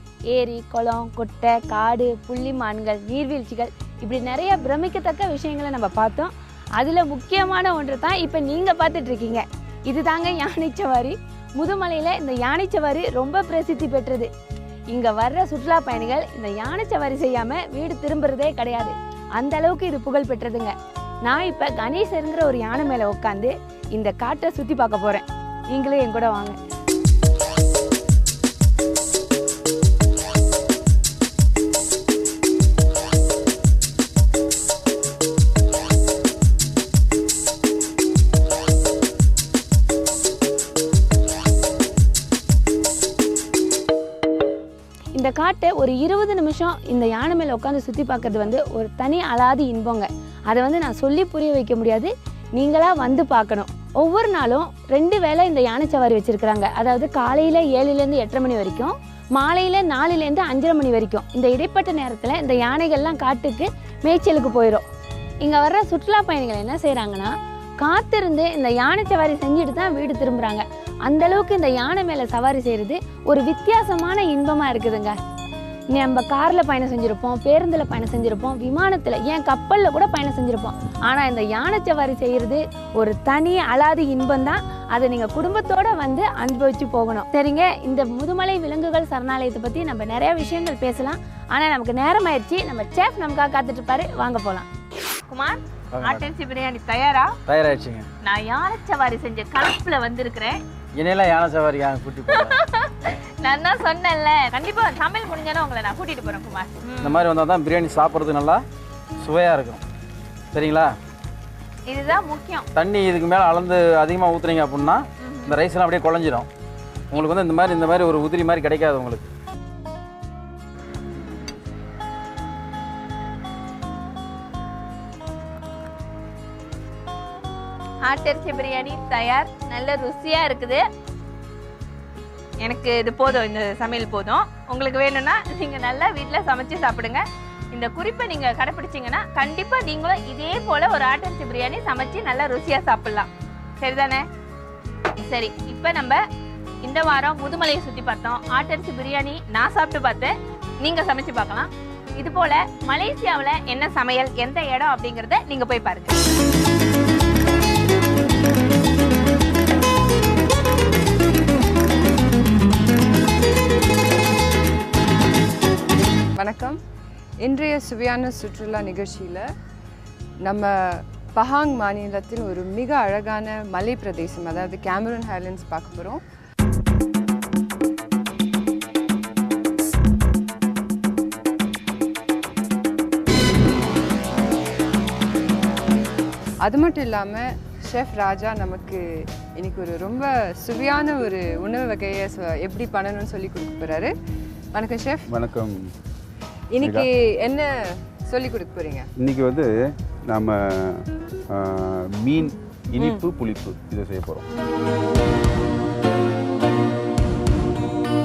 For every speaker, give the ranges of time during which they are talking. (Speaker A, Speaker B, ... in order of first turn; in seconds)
Speaker A: 0.3-14.3, 14.9-20.7, 21.2-26.6, 45.1-64.8, 65.4-75.2, 75.9-94.7
Speaker B: 95.3-97.4, 98.2-100.6, 102.3-107.2, 111.9-112.7, 115.2-115.6, 128.0-130.8, 132.6-144.2, 145.2-146.2, 146.8-156.2
Speaker C: 95.9-96.3, 97.5-98.1, 101.0-102.6, 107.0-108.6, 109.2-109.8, 110.5-110.9, 112.7-116.5, 117.1-119.3
Speaker D: 166.4-166.8, 167.4-169.5, 170.4-176.2, 186.6-194.1, 194.7-195.3, 196.7-199.1, 203.0-203.2
Speaker E: 195.3-195.9, 196.8-197.1, 199.2-199.7, 200.3-204.5